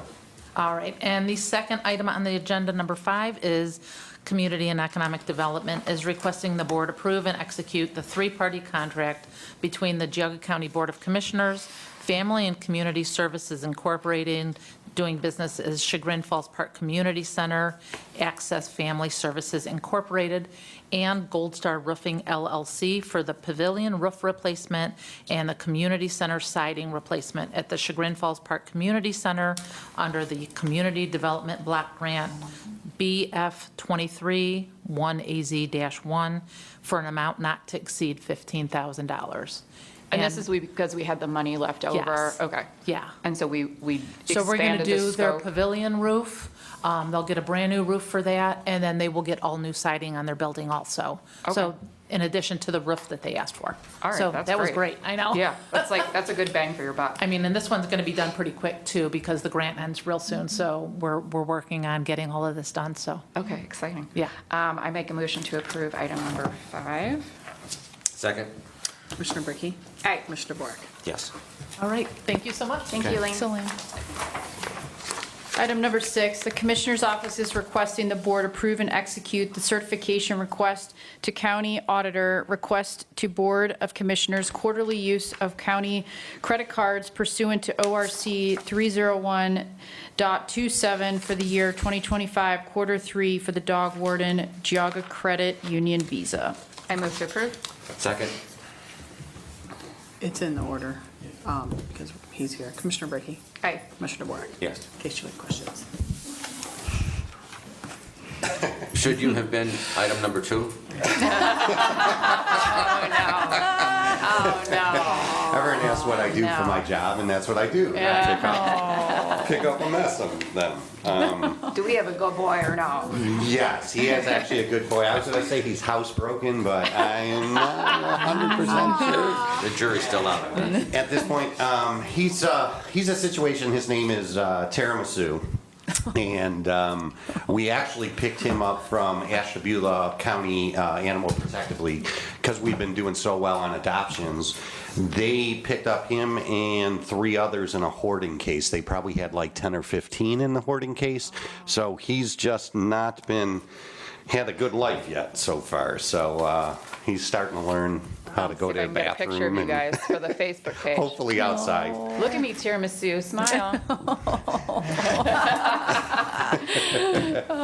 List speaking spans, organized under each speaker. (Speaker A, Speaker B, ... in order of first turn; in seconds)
Speaker A: 0.6-32.4, 33.0-40.5, 41.9-43.1, 44.3-55.8, 57.2-63.3, 71.8-73.7
Speaker B: 40.1-42.7, 43.2-45.5, 54.0-57.2, 63.4-67.3, 70.0-70.3, 72.9-73.5, 96.9-97.6, 111.1-116.8, 118.0-119.5, 121.7-123.3, 158.4-161.2, 162.0-167.4
Speaker C: 68.1-68.5, 71.0-71.3, 97.9-98.4, 104.6-104.9, 108.9-110.9, 129.5-130.9
Speaker D: 69.2-70.9, 100.2-103.4, 104.0-105.9
Speaker E: 75.5-96.6
Speaker F: 114.9-121.7, 123.1-129.6, 130.8-135.4, 136.0-153.7, 154.3-160.1, 160.9-162.1, 167.1-167.4